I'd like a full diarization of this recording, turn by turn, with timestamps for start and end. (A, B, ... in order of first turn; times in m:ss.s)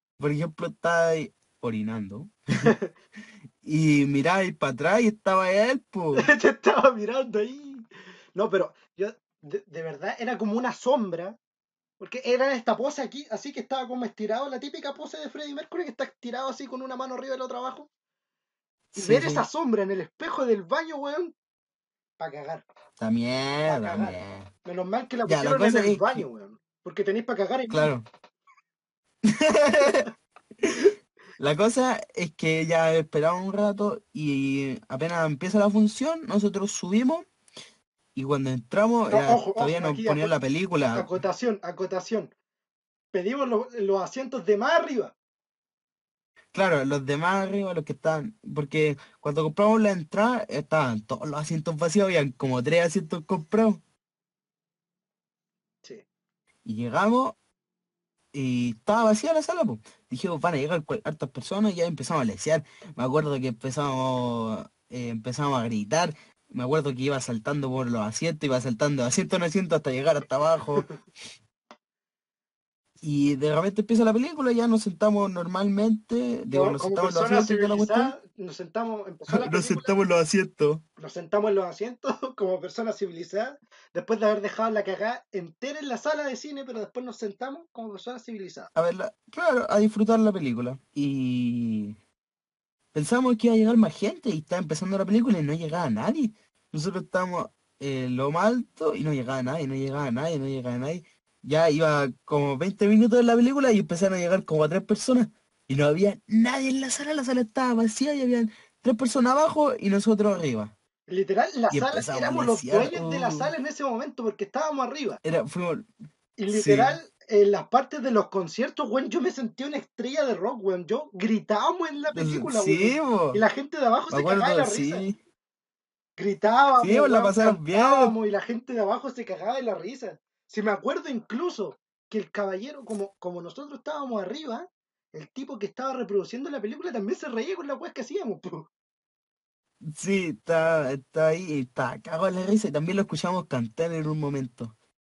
0:00.2-0:02.7 A
0:02.6-0:02.9 B
0:03.6-0:06.3 A
0:06.2-0:11.4 B
0:12.0-0:17.9 B
0:18.9-0:19.5 A
0:19.0-0:21.4 B
0:22.2-0:22.6 B
0:23.0-0:24.5 A
0:23.6-0:27.9 B
0:25.3-0:26.3 A
0:27.7-0:28.1 A
0:29.2-0:30.1 A
0:30.6-0:37.3 A
0:38.2-0:41.1 A
0:39.1-0:40.4 B
0:40.9-0:42.3 B
0:43.1-0:45.2 B
0:46.5-0:53.8 A
0:56.6-0:57.4 A
0:58.3-1:10.9 A
1:13.0-1:18.2 A
1:16.5-1:20.0 B
1:19.3-1:20.8 A
1:21.0-1:28.7 B
1:28.8-1:32.0 A
1:32.9-1:50.7 A
1:51.1-1:55.2 B
1:51.7-1:53.5 A
1:55.2-1:55.9 A
1:56.4-2:05.1 B
1:56.5-1:57.0 A
2:02.1-2:03.4 A
2:04.1-2:05.2 A
2:06.2-2:18.7 B
2:06.8-2:08.2 A
2:19.8-2:24.7 A